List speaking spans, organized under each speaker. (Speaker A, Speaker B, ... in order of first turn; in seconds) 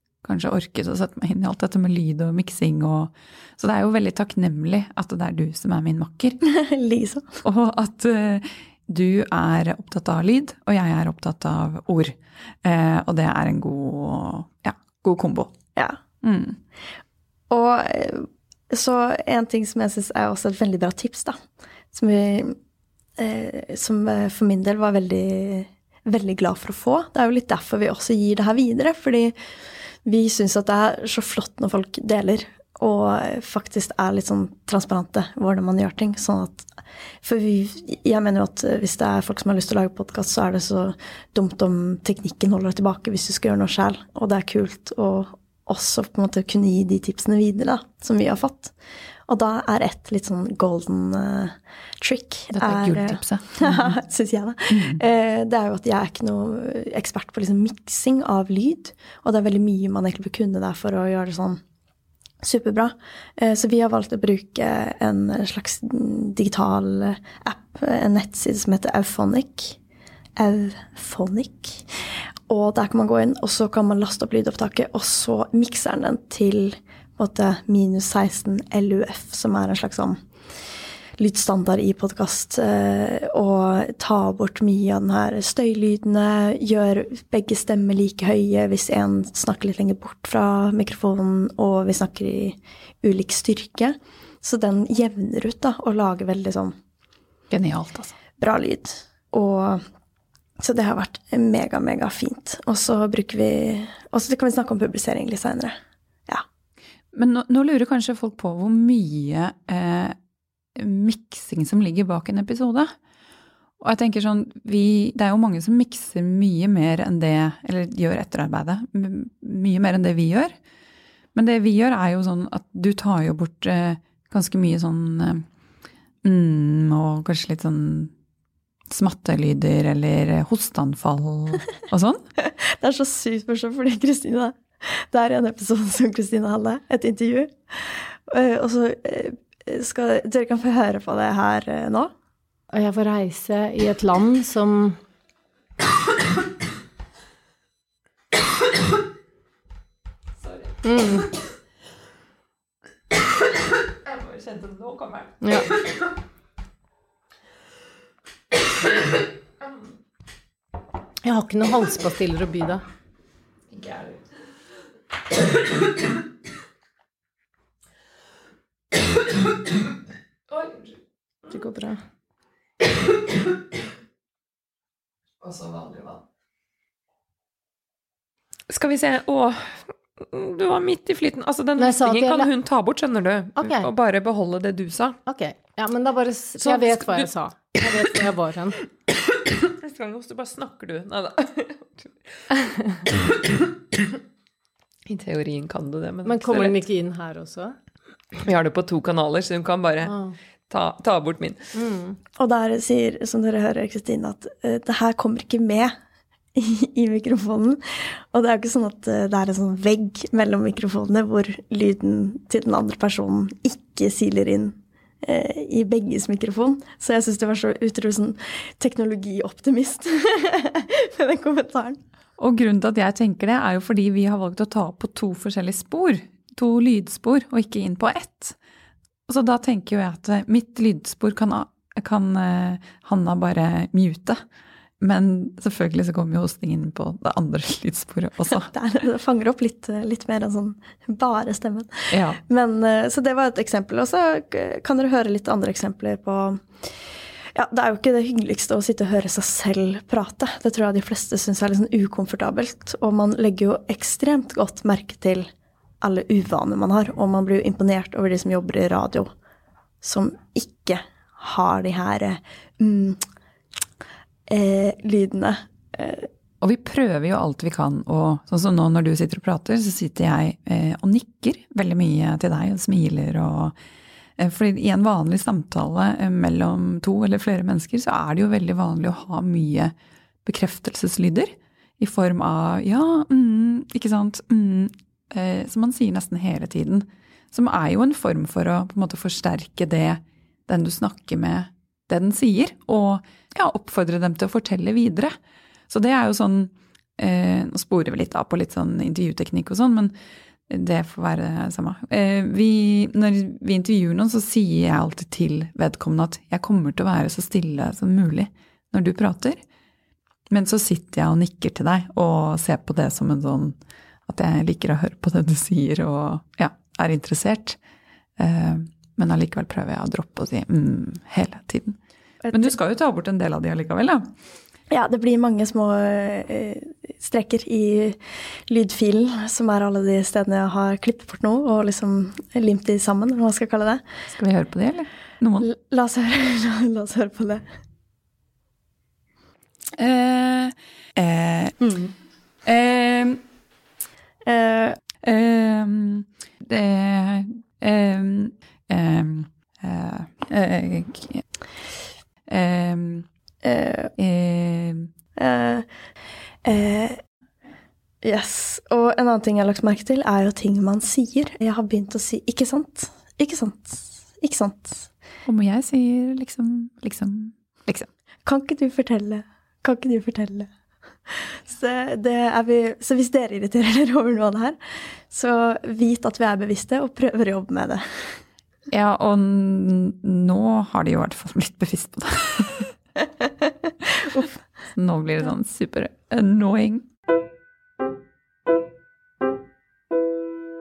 Speaker A: 0.2-6.4, 7.4-15.5, 16.2-16.6, 52.5-53.9, 54.7-55.0, 97.5-98.1, 107.1-110.2, 110.7-112.9, 113.8-120.5, 121.3-125.4, 126.2-128.1, 128.9-132.2, 154.1-155.3, 163.7-164.1, 170.5-170.8, 175.4-176.2, 178.7-185.2, 186.6-187.3, 189.7-192.0, 195.1-196.7, 198.4-200.1, 200.7-201.6, 222.4-228.6, 229.3-234.4, 235.0-238.7, 242.1-242.4, 266.6-273.7, 274.4-279.9, 280.4-295.4, 295.9-300.1, 300.7-309.6, 310.5-313.8, 314.3-317.8, 318.4-322.0, 322.5-324.3, 334.3-335.7, 340.0-342.0, 342.6-343.4, 345.2-351.4, 352.5-353.3, 354.2-355.1, 365.4-368.1, 378.9-382.9, 384.9-387.1
Speaker B: 6.4-7.4, 17.5-21.4, 21.9-22.6, 23.2-29.3, 30.0-36.7, 37.2-48.7, 49.3-61.6, 62.4-69.8, 70.4-71.9, 72.5-80.2, 81.2-96.7, 98.4-99.8, 100.6-106.4, 132.4-142.1, 202.4-205.9, 206.5-222.0, 238.7-246.7, 247.5-255.5, 256.0-259.3, 260.0-263.2, 264.5-266.3, 322.4-322.7, 324.9-334.0, 335.6-337.6, 344.4-345.0, 353.6-354.1, 355.4-355.9, 356.6-357.2, 358.2-365.1, 368.4-370.7, 371.3-374.8, 375.3-378.4
Speaker C: 142.7-145.0, 150.8-151.3, 155.4-155.8, 161.2-162.8, 181.8-182.5, 183.6-183.9, 185.2-188.8, 196.2-197.8, 200.1-200.3, 201.8-202.2